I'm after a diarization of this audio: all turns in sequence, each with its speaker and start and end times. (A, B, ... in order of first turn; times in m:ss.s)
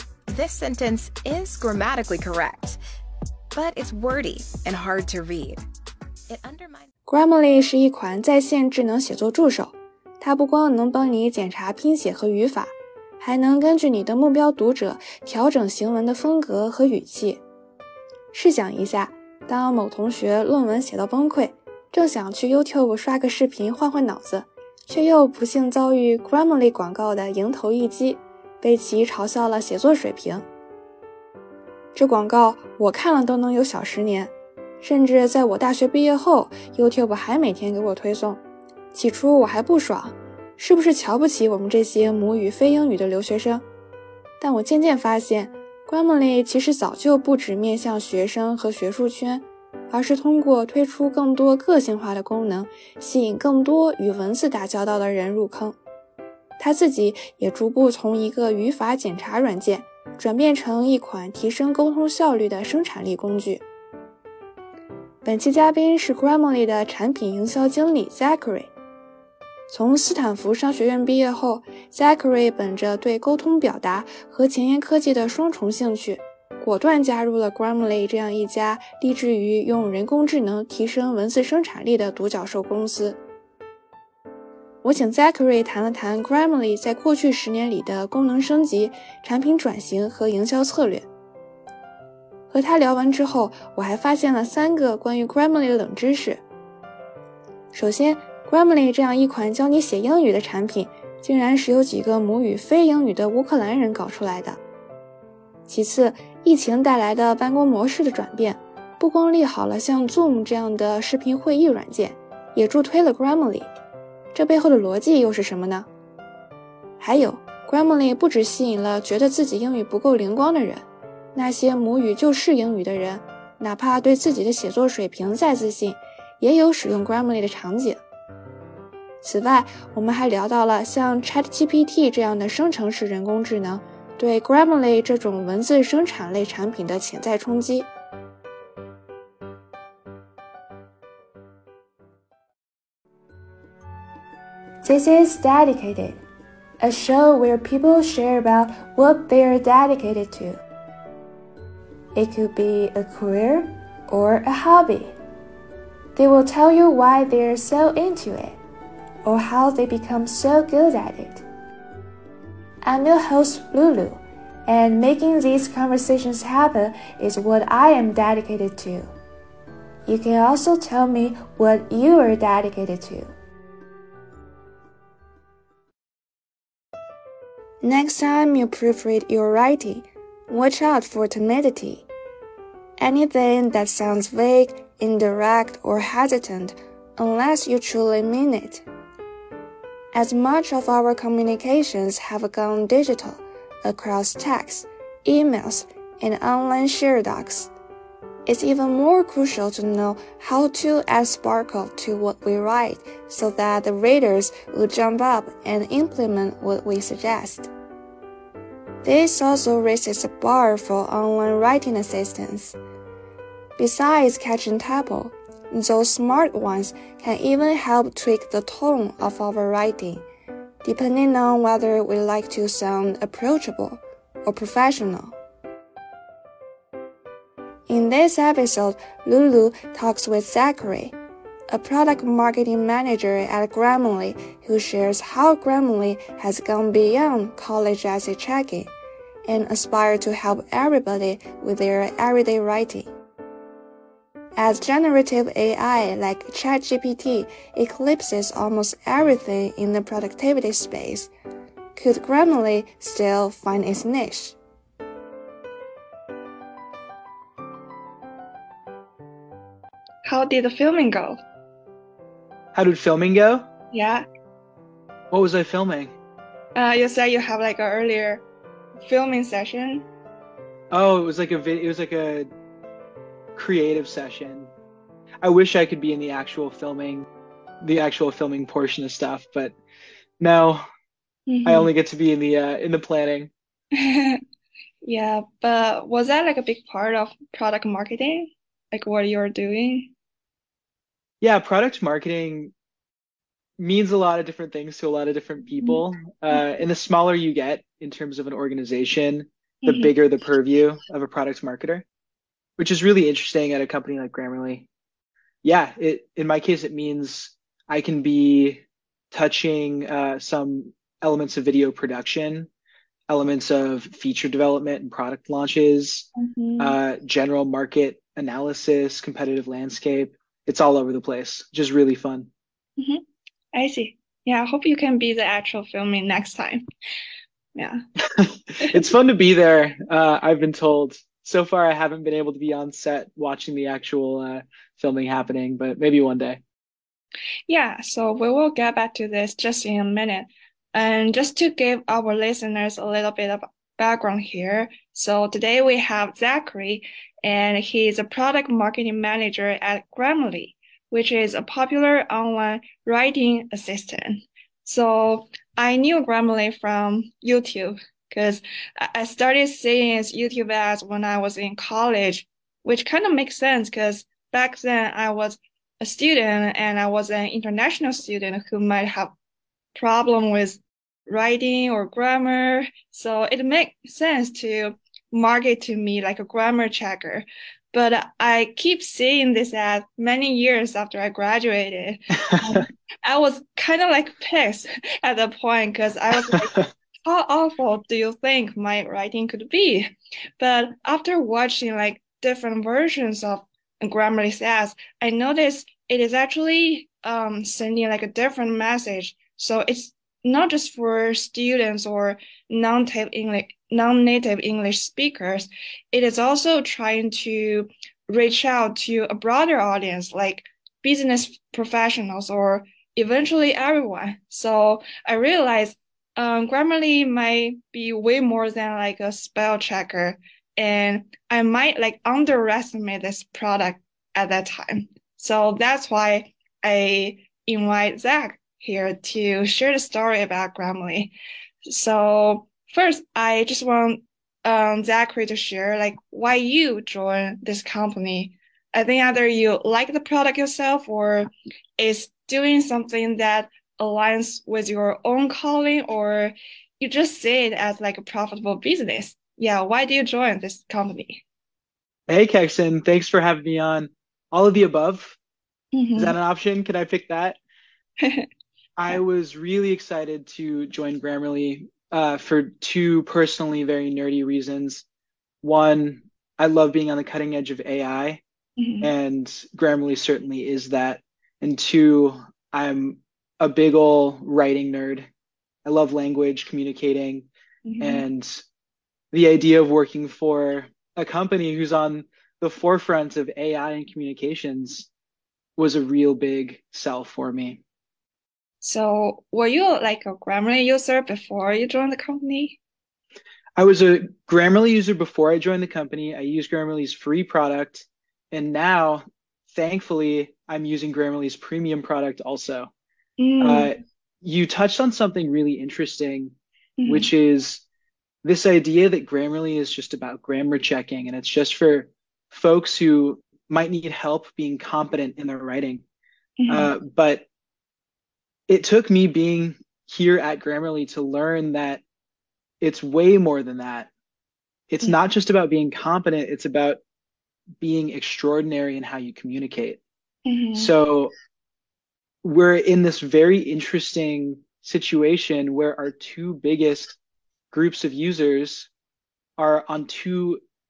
0:00.3-0:02.8 A
0:03.5-0:05.6 A
0:06.3-0:06.9 A
0:07.1-0:17.4 B
0:18.3-0:30.4 B
0:31.9-0:38.4 B
0:38.9-0:43.6 B
0:44.4-0:55.8 B
0:56.6-1:03.6 B
1:05.2-1:08.7 B
1:09.7-1:23.2 B
1:24.8-1:31.0 B
1:32.5-1:36.4 B
1:37.7-1:44.6 B
1:45.7-1:53.7 B
1:54.3-1:55.9 B
1:57.0-2:00.8 B
2:01.3-2:08.0 B
2:09.2-2:17.9 B
2:24.8-2:26.2 B
2:26.8-2:30.6 B
2:32.1-2:35.1 B
2:36.2-2:38.6 B
2:39.2-2:41.4 B
2:42.8-2:49.1 B
2:50.1-2:53.3 B
2:57.8-3:02.0 B
3:03.0-3:08.8 B
3:10.1-3:17.7 B
3:18.4-3:27.7 B
3:29.0-3:32.8 B
3:33.8-3:40.2 B
3:40.8-3:45.3 B
3:47.9-3:51.1 B
3:51.7-3:58.9 B
3:59.5-4:03.1 B
4:04.6-4:11.3 B
4:12.0-4:14.6 B
4:20.2-4:21.4 C
4:22.7-4:23.7 D
4:23.9-4:24.2 C
4:25.3-4:26.1 D
4:26.7-4:28.4 C
4:29.0-4:30.0 C
4:30.9-4:32.5 D
4:33.5-4:34.7 D
4:35.4-4:37.2 D
4:37.8-4:39.7 D
4:40.4-4:40.9 D
4:41.5-4:41.9 C
4:41.6-4:43.5 D
4:44.0-4:44.4 C
4:45.0-4:50.1 C
4:51.4-4:52.7 D
4:53.8-5:02.0 D
4:59.8-5:00.1 C
5:02.8-5:04.9 D
5:05.6-5:12.7 D
5:13.3-5:22.5 D
5:16.4-5:17.0 C
5:23.0-5:23.2 C
5:23.7-5:26.8 C
5:27.7-5:28.0 C
5:28.3-5:36.6 D
5:37.7-6:09.3 C
6:09.9-7:11.3 C
6:22.5-6:22.8 D
7:11.9-7:31.4 C
7:32.3-7:35.4 D
7:35.9-7:36.4 C
7:36.2-7:37.6 D
7:38.2-7:38.5 C
7:39.0-7:45.0 D
7:45.6-7:48.4 D
7:48.8-7:49.1 C
7:49.0-7:55.3 D
7:55.8-7:57.5 D
7:57.8-7:58.2 C
7:58.0-7:58.6 D
7:59.3-8:05.1 D
8:05.8-8:07.8 D
8:08.8-8:12.8 C
8:13.8-8:22.9 D
8:23.4-8:23.9 C
8:23.6-8:26.5 D
8:27.0-8:27.3 C
8:27.1-8:27.8 D
8:28.4-8:36.0 D
8:36.6-8:36.9 C
8:36.7-8:37.4 D
8:38.7-8:42.0 D
8:42.8-8:44.1 D
8:44.9-8:47.0 D
8:47.8-8:50.0 D
8:50.4-8:50.9 C
8:50.7-8:51.3 D
8:52.4-8:57.2 D
8:57.7-8:58.9 D
8:59.6-9:00.6 D